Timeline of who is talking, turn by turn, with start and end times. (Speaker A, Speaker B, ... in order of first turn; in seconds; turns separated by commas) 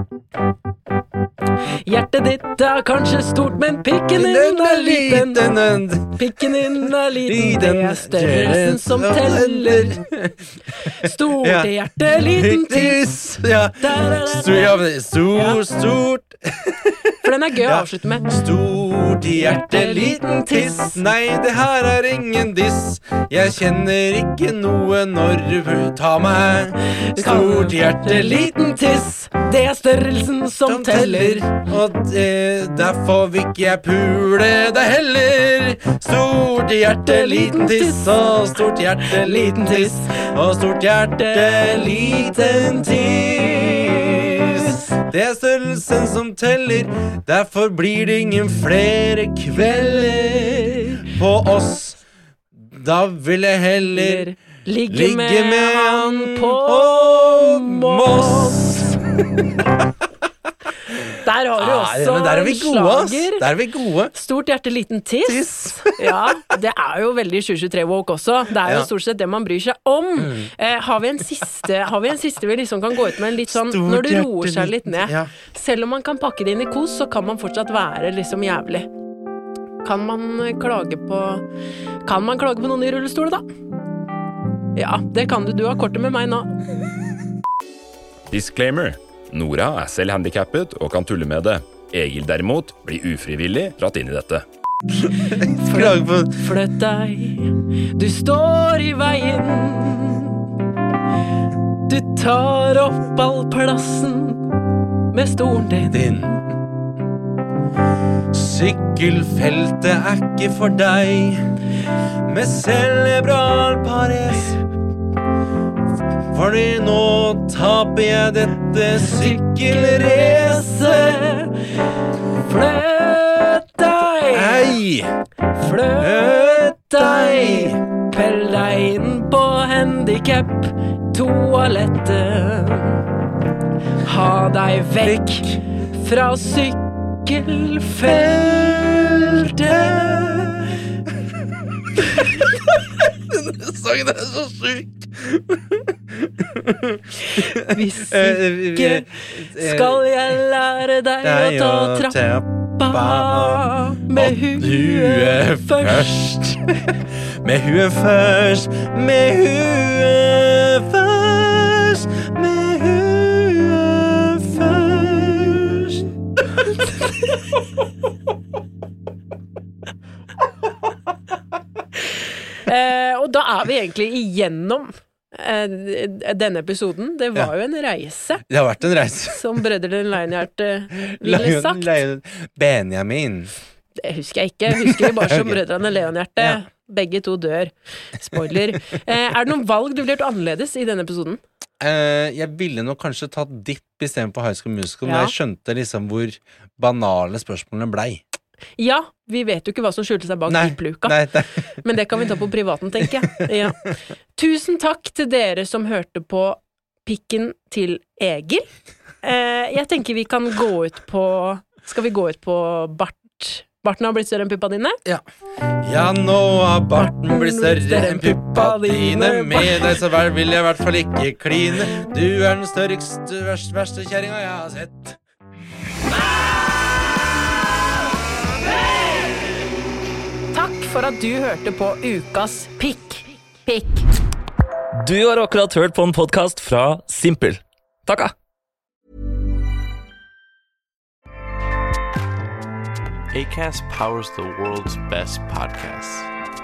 Speaker A: 1.9-5.5, Speaker B: 4.1-10.9, Speaker A: 6.1-9.9, Speaker A: 10.9-13.0, Speaker B: 11.4-17.1, Speaker A: 13.8-15.6, Speaker A: 17.2-18.3, Speaker B: 17.6-28.5, Speaker A: 19.4-21.0, Speaker A: 27.1-31.5, Speaker B: 30.6-52.0, Speaker A: 37.0-38.4, Speaker A: 39.0-40.3, Speaker A: 41.2-44.9, Speaker A: 49.6-51.0, Speaker B: 52.6-54.3, Speaker A: 53.9-59.0, Speaker B: 54.9-59.5, Speaker A: 61.2-63.5, Speaker B: 61.6-64.1, Speaker A: 64.1-78.9, Speaker B: 65.3-66.3, Speaker B: 70.2-70.5, Speaker B: 73.5-75.3, Speaker A: 79.8-81.4, Speaker A: 82.1-83.4, Speaker A: 84.8-86.5, Speaker C: 88.3-94.5, Speaker B: 95.0-96.4, Speaker A: 95.7-100.4, Speaker A: 101.9-104.5, Speaker A: 105.1-106.1, Speaker B: 105.9-106.6, Speaker B: 108.3-111.4, Speaker B: 112.3-114.6, Speaker B: 116.3-121.2, Speaker A: 119.0-121.6, Speaker A: 122.3-124.8, Speaker B: 124.3-125.1, Speaker A: 125.5-133.0, Speaker B: 126.0-127.8, Speaker A: 134.0-138.5, Speaker B: 135.0-135.6, Speaker B: 138.1-140.8, Speaker B: 142.2-150.1, Speaker A: 147.4-152.2, Speaker B: 151.2-166.1, Speaker A: 152.8-156.1, Speaker A: 172.7-178.4, Speaker B: 178.5-179.5, Speaker A: 179.3-181.9, Speaker B: 181.0-183.5, Speaker A: 184.0-191.4, Speaker B: 184.8-185.6, Speaker B: 191.8-198.2, Speaker A: 195.1-195.3, Speaker A: 198.8-201.2, Speaker B: 200.5-201.7, Speaker A: 201.8-203.8, Speaker A: 204.4-208.7, Speaker A: 209.2-215.0, Speaker B: 215.8-225.2, Speaker A: 217.0-219.9, Speaker A: 230.5-234.1, Speaker D: 235.0-238.3, Speaker E: 243.3-246.3